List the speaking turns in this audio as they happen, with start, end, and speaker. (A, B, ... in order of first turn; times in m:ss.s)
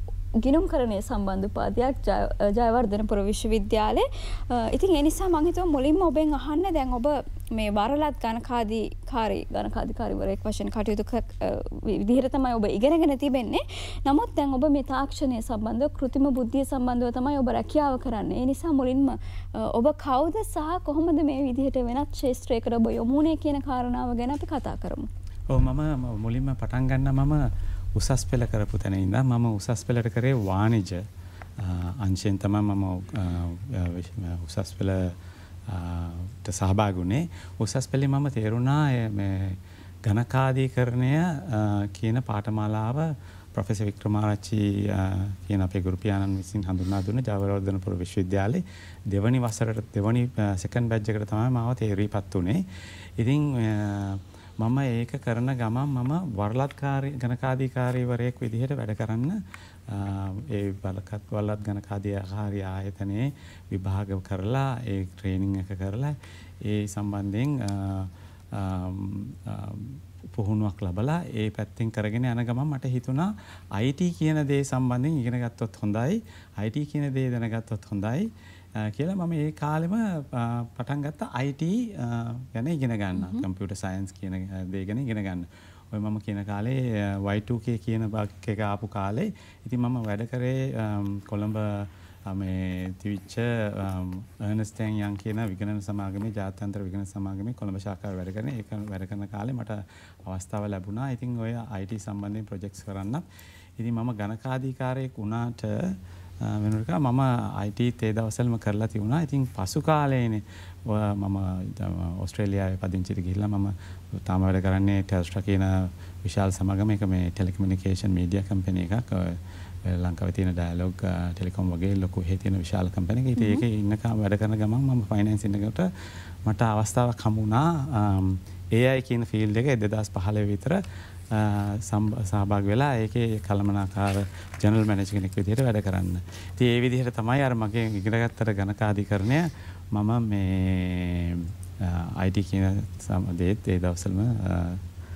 0:00.4-0:25.0 A
0:25.5-0:31.0 B
0:31.6-0:35.1 B
0:35.7-0:52.6 B
0:53.2-1:18.2 B
1:18.8-1:43.2 B
1:23.2-1:23.4 A
1:43.8-1:53.7 B
1:54.2-2:05.9 B
2:03.4-2:03.6 A
2:06.4-2:10.8 B
2:11.3-2:24.8 B